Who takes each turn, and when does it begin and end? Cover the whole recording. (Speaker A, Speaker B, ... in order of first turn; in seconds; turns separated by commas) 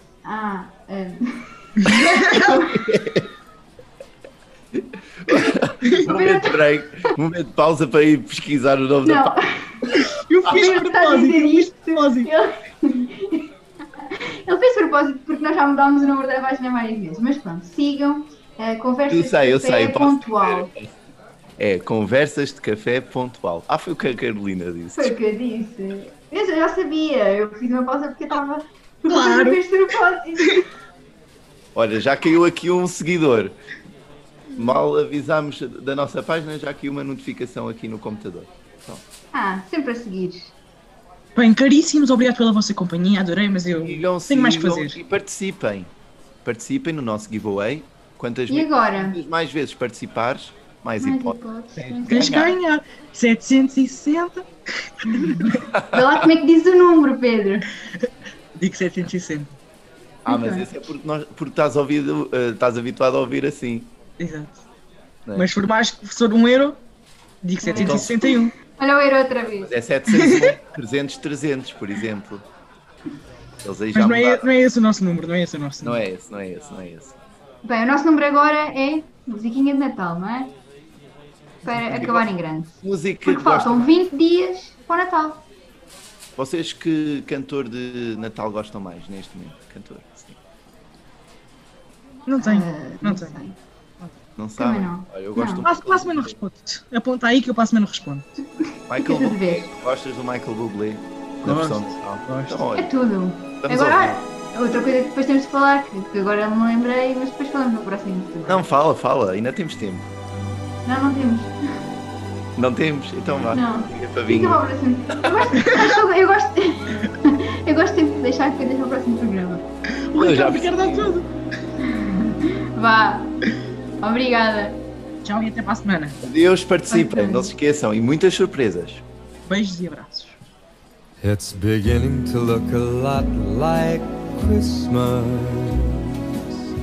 Speaker A: 0.2-2.9, Speaker B: 1.8-2.6, Speaker C: 2.7-3.3, Speaker C: 5.2-9.4, Speaker A: 6.0-7.1, Speaker A: 9.1-9.9, Speaker B: 9.9-12.3, Speaker A: 10.5-13.5, Speaker A: 14.0-20.7, Speaker C: 19.1-20.9, Speaker C: 21.6-25.1, Speaker A: 25.0-30.7, Speaker B: 29.1-29.6, Speaker C: 31.8-33.6, Speaker C: 34.5-39.0, Speaker A: 39.3-40.5, Speaker B: 41.4-45.0, Speaker C: 43.8-45.9, Speaker C: 46.5-52.6, Speaker A: 48.5-49.2, Speaker A: 51.0-52.4, Speaker B: 52.1-55.6, Speaker A: 55.1-57.7, Speaker C: 55.7-56.0, Speaker B: 57.9-59.5, Speaker C: 60.3-63.9, Speaker A: 60.3-60.7, Speaker B: 64.2-64.6, Speaker C: 65.3-65.5, Speaker B: 65.4-66.8, Speaker B: 67.4-68.5, Speaker A: 67.6-69.7, Speaker C: 67.7-68.1, Speaker C: 69.6-72.5, Speaker B: 70.1-70.5, Speaker C: 73.6-74.5, Speaker B: 73.9-76.0, Speaker C: 75.8-77.2, Speaker A: 77.6-80.5, Speaker A: 81.6-85.4, Speaker C: 81.8-82.2, Speaker C: 82.8-83.9, Speaker C: 86.4-90.4, Speaker B: 92.3-93.4, Speaker A: 92.4-93.6, Speaker C: 94.4-96.4, Speaker A: 94.6-95.7, Speaker B: 95.6-98.3, Speaker C: 98.9-102.9, Speaker A: 98.9-99.7, Speaker B: 101.4-102.6, Speaker A: 102.8-108.7, Speaker C: 103.6-104.2, Speaker C: 108.5-110.1, Speaker A: 110.9-111.6, Speaker C: 112.6-114.6, Speaker A: 113.5-119.6, Speaker B: 120.1-121.3, Speaker C: 120.2-121.1, Speaker A: 121.8-123.4, Speaker A: 124.0-124.8, Speaker B: 125.2-126.2, Speaker C: 126.2-129.0, Speaker A: 126.9-127.5, Speaker B: 129.5-130.4, Speaker D: 131.2-136.4